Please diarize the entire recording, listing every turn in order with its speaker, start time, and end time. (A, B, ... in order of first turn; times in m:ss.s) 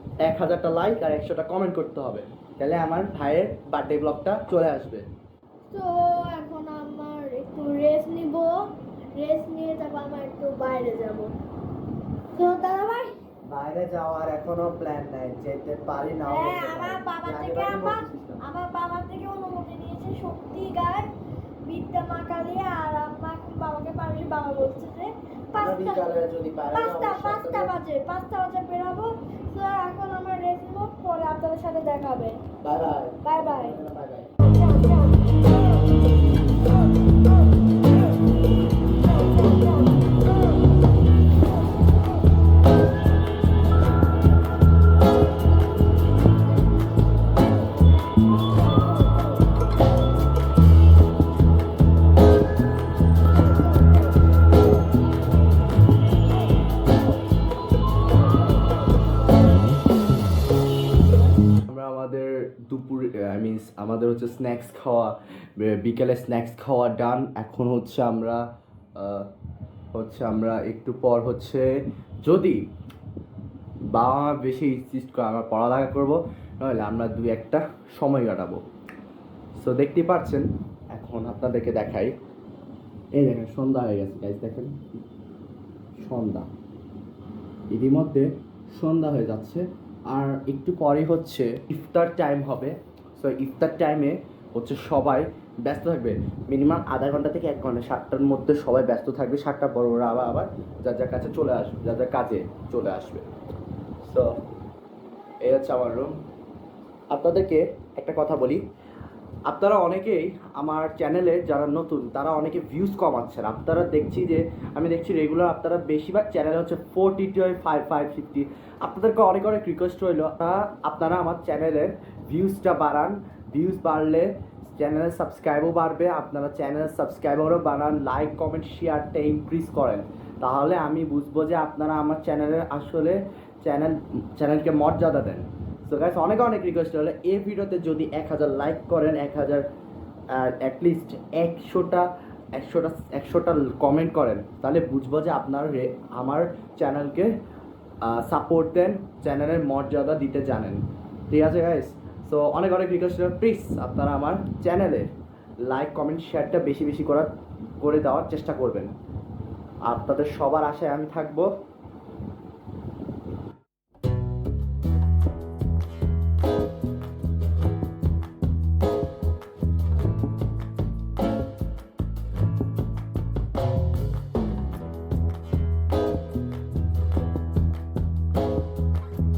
0:00.2-0:05.0 A
0:05.7-0:11.3 B
0:12.3-0:13.1 B
0:13.5-0:18.4 A
0:16.3-0:21.1 B
0:21.6-0:26.1 B
0:25.6-0:27.7 A
0:26.7-0:32.4 B
0:32.6-0:34.3 A
0:33.2-0:33.8 B
1:01.7-1:08.4 A
1:09.0-1:09.3 A
1:09.9-1:11.7 A
1:12.2-1:12.6 A
1:13.9-1:18.6 A
1:19.6-1:22.1 A
1:23.1-1:24.8 A
1:26.0-1:26.5 A
1:27.7-1:43.2 A
1:44.0-1:44.4 A
1:45.4-1:46.1 A
1:47.1-1:48.6 A
1:49.4-2:19.6 A
2:20.3-2:27.3 A
2:28.0-2:35.1 A
2:35.7-2:37.3 A
2:37.8-2:38.9 A
2:39.9-2:41.5 A